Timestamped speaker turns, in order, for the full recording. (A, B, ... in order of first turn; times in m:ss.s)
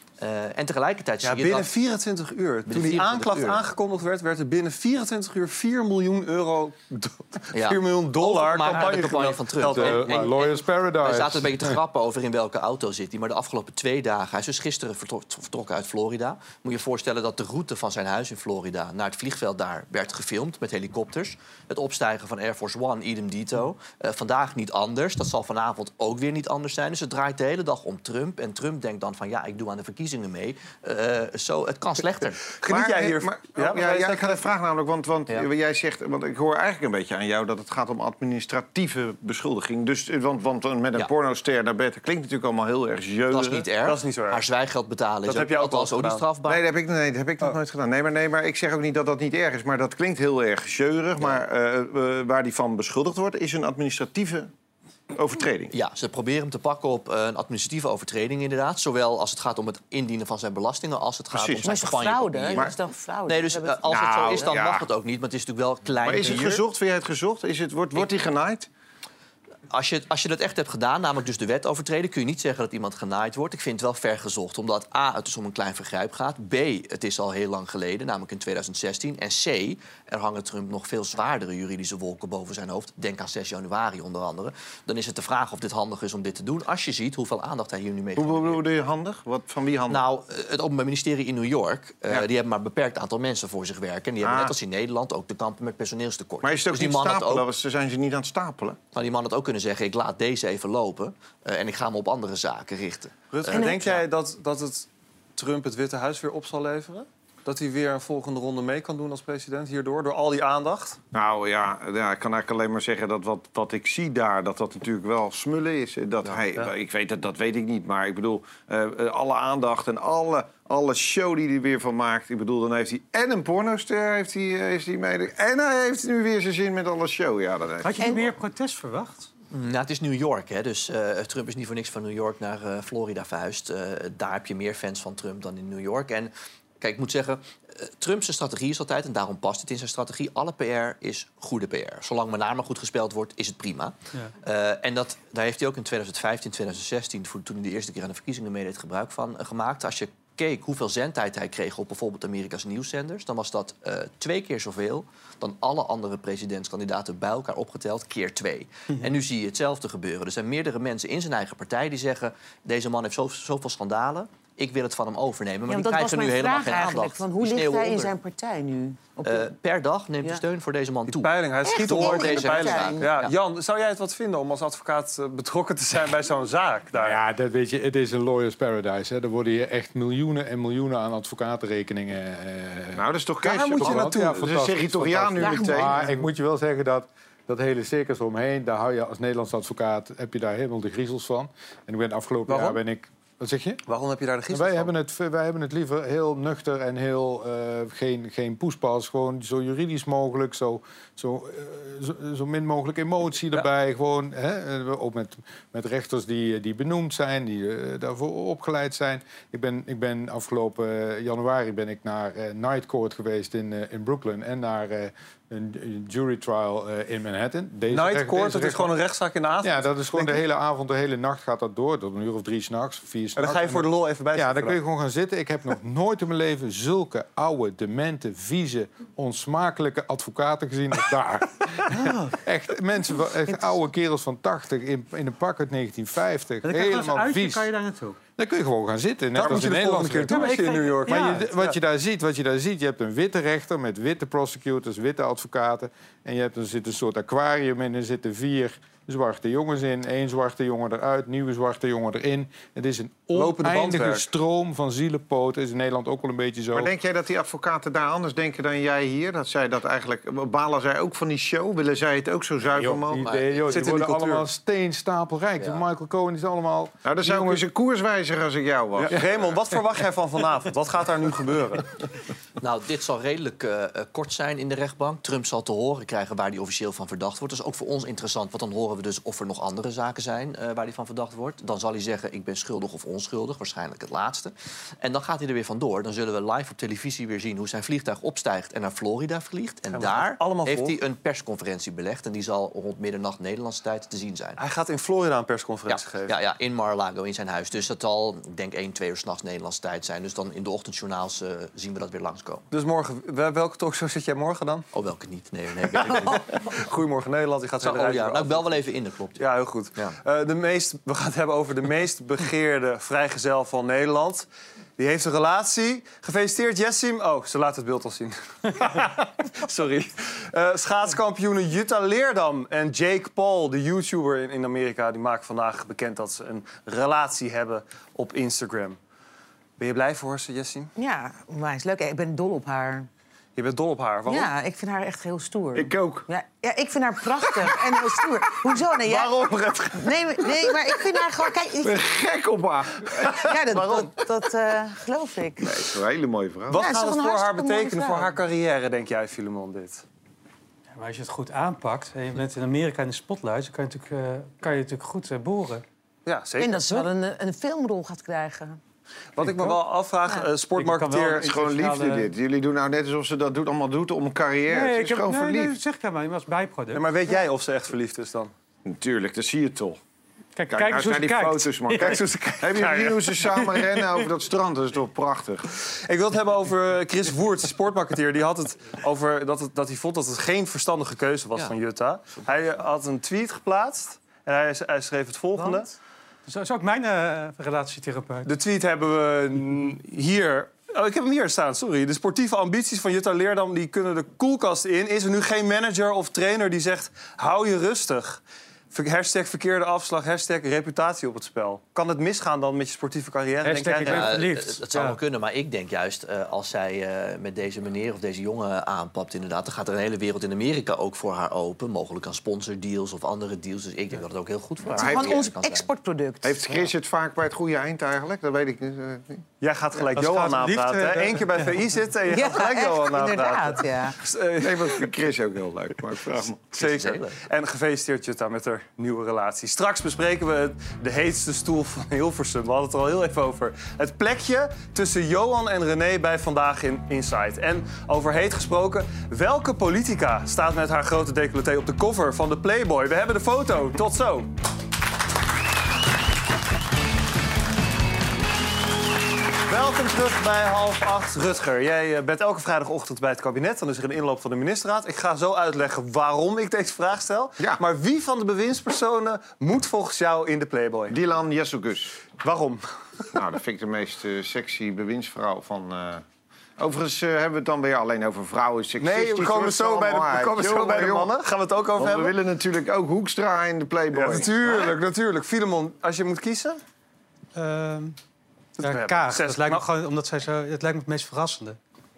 0:00.2-0:01.7 A
0:01.2-0:10.3 B
0:02.7-0:03.6 A
0:07.5-0:32.4 A
0:09.6-0:11.8 C
0:32.6-0:34.4 B
0:32.6-0:43.7 D
0:43.3-0:46.6 A
0:43.8-0:44.4 B
0:45.2-0:46.2 B
0:46.5-0:54.5 D
0:51.2-0:51.4 A
0:55.1-0:55.7 D
0:55.7-1:02.7 A
1:01.3-1:02.0 D
1:01.6-1:04.5 E
1:03.2-1:06.6 A
1:03.8-1:04.9 D
1:06.0-1:08.7 D
1:09.7-1:28.6 A
1:28.2-1:30.0 D
1:29.9-1:37.5 A
1:34.2-1:34.5 D
1:36.4-1:38.8 D
1:38.9-1:44.0 A
1:43.3-1:51.0 B
1:51.1-2:08.2 D
2:07.8-2:09.3 F
2:09.5-2:48.1 A
2:45.7-2:49.5 E
2:49.2-2:53.3 A
2:51.1-2:57.2 B
2:51.6-2:53.1 E
2:56.9-3:13.8 C
3:02.9-3:06.2 D
3:03.7-3:04.3 B
3:05.4-3:06.0 E
3:12.5-3:12.8 B
3:13.9-3:14.9 B
3:14.5-3:38.9 C
3:37.9-3:40.4 B
3:39.6-3:51.6 C
3:43.4-3:44.8 B
3:51.9-3:52.3 F
3:52.4-3:57.7 C
3:56.6-3:58.2 F
3:58.4-4:00.5 C
3:59.3-4:01.8 B
4:00.2-4:01.5 F
4:01.1-4:16.9 C
4:13.3-4:14.2 B
4:16.7-4:23.3 D
4:22.7-4:27.6 C
4:23.2-4:23.8 A
4:23.7-4:24.4 B
4:27.0-4:29.3 D
4:29.0-4:31.8 B
4:32.6-4:54.6 A
4:49.9-4:51.0 B
4:54.6-4:56.3 B
4:55.9-5:02.6 A
5:02.7-5:04.8 B
5:04.9-5:06.5 A
5:06.0-5:14.5 B
5:07.8-5:10.2 A
5:15.0-5:29.0 B
5:29.8-5:30.9 B
5:31.0-5:33.1 E
5:33.6-5:34.5 B
5:34.3-5:42.0 E
5:35.7-5:36.3 D
5:39.0-5:40.1 B
5:41.8-5:43.5 D
5:43.4-5:45.7 E
5:43.7-5:44.1 B
5:45.6-5:46.8 D
5:46.7-5:50.0 B
5:46.7-5:48.4 E
5:50.9-5:55.8 F
5:56.2-5:56.8 B
5:56.6-5:58.8 E
5:59.4-6:01.5 B
5:59.4-5:59.8 F
6:00.7-6:02.3 F
6:01.4-6:05.8 D
6:04.7-6:07.3 F
6:06.9-6:08.5 B
6:08.8-6:10.0 D
6:10.6-6:12.6 F
6:10.7-6:15.6 D
6:12.0-6:13.3 B
6:16.1-6:25.9 B
6:26.5-6:28.5 F
6:28.4-6:38.4 B
6:38.9-6:44.4 B
6:43.6-6:45.2 F
6:44.0-6:55.9 A
6:54.9-6:56.6 E
6:54.9-6:55.5 D
6:56.4-6:59.4 D
6:59.6-7:05.1 B
7:00.0-7:01.8 F
7:02.3-7:04.2 E
7:04.6-7:06.6 D
7:06.7-7:07.4 A
7:06.7-7:24.5 B
7:29.7-7:41.2 B
7:41.1-7:42.2 D
7:42.4-7:42.8 B
7:43.3-7:46.2 D
7:46.8-7:51.3 D
7:49.0-7:52.4 B
7:52.0-7:54.8 D
7:54.1-7:56.8 B
7:57.6-7:58.2 F
7:58.8-7:59.9 B
7:58.8-8:01.8 F